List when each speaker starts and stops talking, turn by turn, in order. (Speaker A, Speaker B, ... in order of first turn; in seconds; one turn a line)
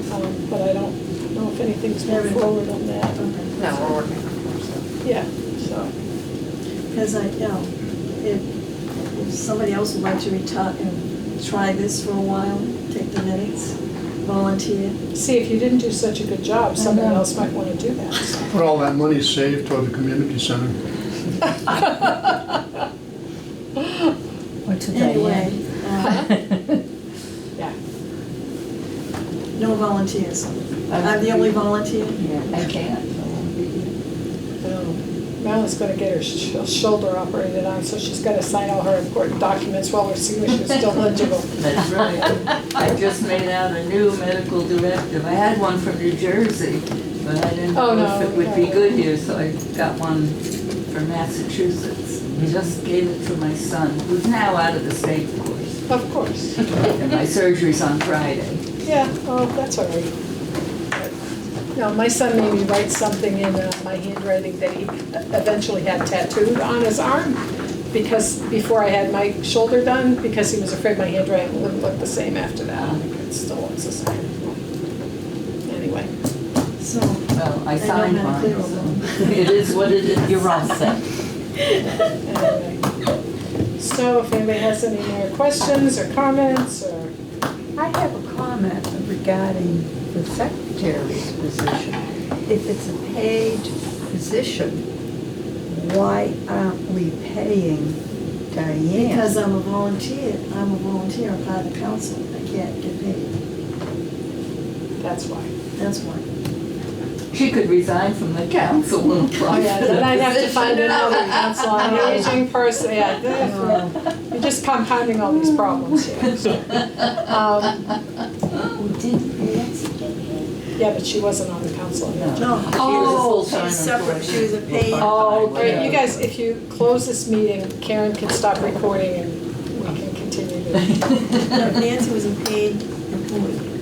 Speaker A: 0.1-3.2
Speaker B: 2.1-2.6
Speaker B: 3.1-4.0
Speaker A: 5.0-5.9
Speaker B: 6.9-8.4
Speaker B: 9.0-15.0
Speaker A: 15.1-18.4
Speaker C: 16.8-17.3
Speaker D: 18.5-20.8
Speaker A: 21.7-22.4
Speaker E: 24.6-25.5
Speaker B: 24.9-26.2
Speaker A: 26.0-26.3
Speaker C: 26.4-26.7
Speaker B: 29.5-32.4
Speaker C: 30.9-31.6
Speaker C: 32.2-34.0
Speaker A: 34.6-41.5
Speaker C: 40.6-50.4
Speaker A: 47.7-49.0
Speaker C: 50.9-55.8
Speaker A: 55.9-56.7
Speaker C: 56.6-58.6
Speaker A: 58.8-60.1
Speaker A: 61.7-74.6
Speaker C: 72.7-73.0
Speaker A: 75.7-76.1
Speaker B: 76.8-79.5
Speaker C: 77.3-80.8
Speaker F: 80.2-81.0
Speaker A: 82.2-82.8
Speaker A: 83.8-87.1
Speaker E: 87.8-94.8
Speaker E: 95.7-98.0
Speaker E: 98.5-99.4
Speaker B: 98.9-103.3
Speaker A: 105.0-105.5
Speaker B: 105.8-106.2
Speaker C: 107.3-112.3
Speaker A: 109.5-117.9
Speaker E: 113.4-114.0
Speaker C: 115.3-116.0
Speaker F: 118.8-120.5
Speaker A: 120.8-122.5
Speaker C: 122.1-126.2
Speaker B: 122.3-125.9
Speaker A: 125.0-131.2
Speaker C: 131.1-131.4
Speaker B: 131.4-133.7